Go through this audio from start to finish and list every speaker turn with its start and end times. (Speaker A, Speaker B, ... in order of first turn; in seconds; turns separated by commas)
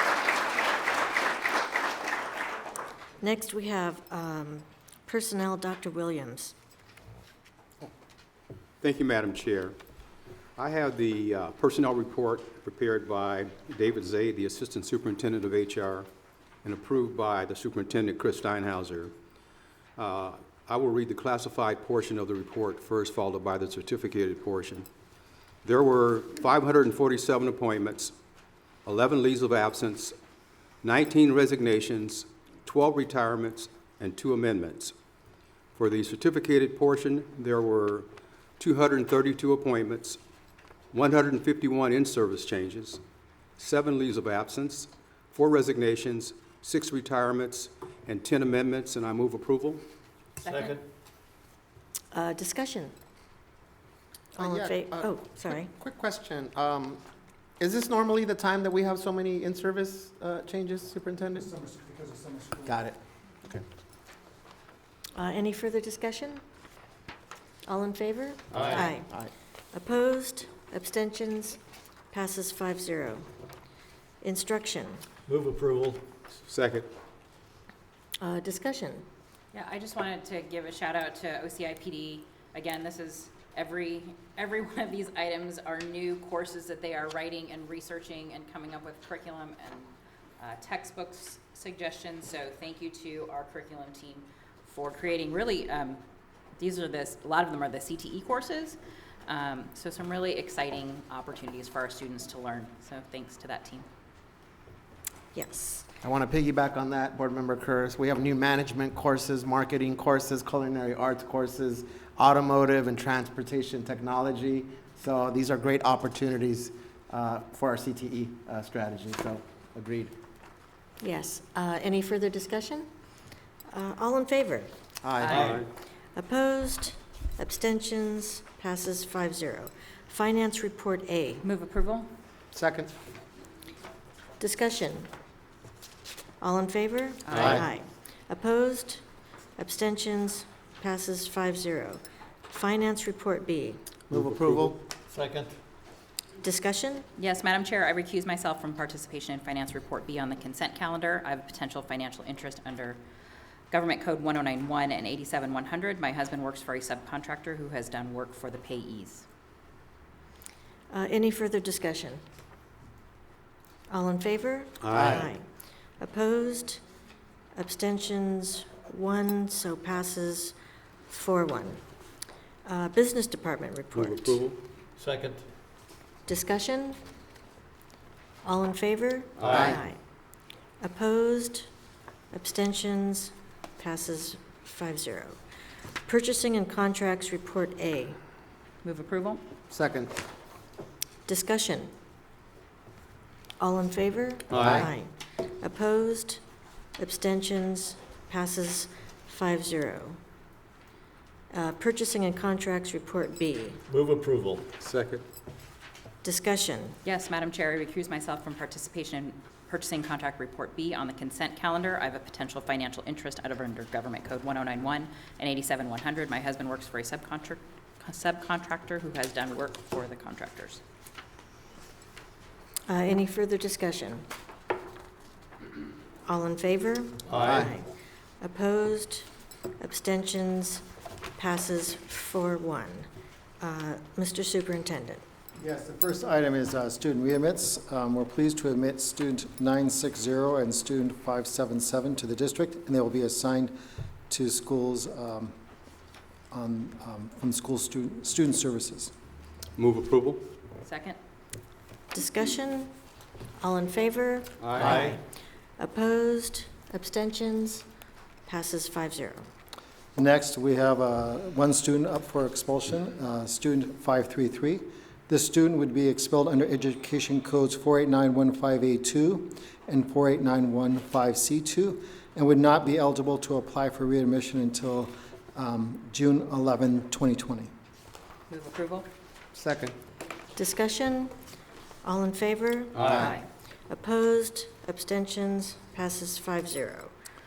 Speaker A: 3.2-6.5, Speaker B: 8.8-9.8, Speaker B: 10.6-16.1, Speaker B: 16.6-19.1, Speaker B: 20.0-24.9, Speaker B: 25.6-28.1, Speaker B: 28.9-30.2, Speaker B: 30.8-35.0, Speaker B: 35.7-40.2, Speaker B: 40.9-43.0, Speaker B: 43.6-49.8, Speaker C: 50.4-50.8, Speaker A: 52.1-52.9, Speaker A: 54.4-55.7, Speaker D: 54.4-57.0, Speaker D: 57.6-61.5, Speaker E: 61.4-62.8, Speaker D: 62.7-63.6, Speaker A: 65.2-66.4, Speaker A: 67.7-69.1, Speaker D: 68.5-69.3, Speaker A: 69.7-71.6, Speaker A: 72.1-73.3, Speaker A: 74.2-75.0, Speaker C: 75.3-76.0, Speaker B: 76.5-76.9, Speaker A: 78.2-79.0, Speaker F: 79.5-96.0, Speaker F: 96.6-103.9, Speaker A: 105.3-105.9, Speaker D: 106.0-120.1, Speaker A: 121.0-122.9, Speaker A: 123.7-124.7, Speaker D: 125.0-125.5, Speaker C: 125.3-125.6, Speaker B: 125.4-125.7, Speaker A: 126.2-131.4, Speaker F: 131.4-132.1, Speaker D: 132.5-132.9, Speaker A: 134.4-135.1, Speaker A: 136.4-139.0, Speaker F: 137.3-137.6, Speaker D: 137.3-137.6, Speaker A: 139.6-143.8, Speaker D: 144.1-144.8, Speaker C: 144.2-145.6, Speaker A: 146.4-147.1, Speaker F: 147.2-153.0, Speaker F: 153.7-159.2, Speaker A: 160.9-162.2, Speaker A: 163.9-165.4, Speaker B: 164.8-165.2, Speaker D: 165.0-165.3, Speaker A: 166.0-166.8, Speaker A: 167.6-170.6, Speaker A: 171.1-171.8, Speaker A: 172.7-174.4, Speaker B: 173.9-174.6, Speaker C: 175.0-175.4, Speaker A: 176.3-177.0, Speaker A: 178.4-180.0, Speaker C: 179.4-179.8, Speaker D: 179.5-179.8, Speaker A: 180.8-181.7, Speaker A: 182.3-185.4, Speaker A: 186.1-188.2, Speaker F: 188.8-189.4, Speaker D: 189.7-190.1, Speaker A: 191.3-191.9, Speaker A: 193.6-196.4, Speaker C: 194.5-194.9, Speaker A: 197.0-200.2, Speaker A: 201.5-203.8, Speaker C: 203.9-204.7, Speaker B: 204.8-205.2, Speaker A: 206.2-207.0, Speaker F: 207.0-220.8, Speaker A: 222.9-224.2, Speaker A: 226.3-227.9, Speaker C: 227.3-227.7, Speaker D: 227.3-227.7, Speaker A: 228.4-229.3, Speaker A: 229.8-230.8, Speaker A: 231.4-233.1, Speaker A: 233.6-235.2, Speaker E: 235.6-243.8, Speaker E: 244.3-245.5, Speaker E: 246.5-249.1, Speaker B: 249.8-250.5, Speaker F: 250.8-251.2, Speaker A: 252.1-252.9, Speaker A: 253.6-255.2, Speaker C: 254.6-255.2, Speaker A: 255.8-257.9, Speaker A: 258.5-259.5, Speaker E: 260.2-277.7, Speaker F: 278.5-279.1, Speaker D: 279.5-279.9, Speaker A: 280.6-281.3, Speaker A: 282.0-283.4, Speaker C: 283.0-283.4, Speaker F: 283.2-283.4, Speaker A: 283.9-287.1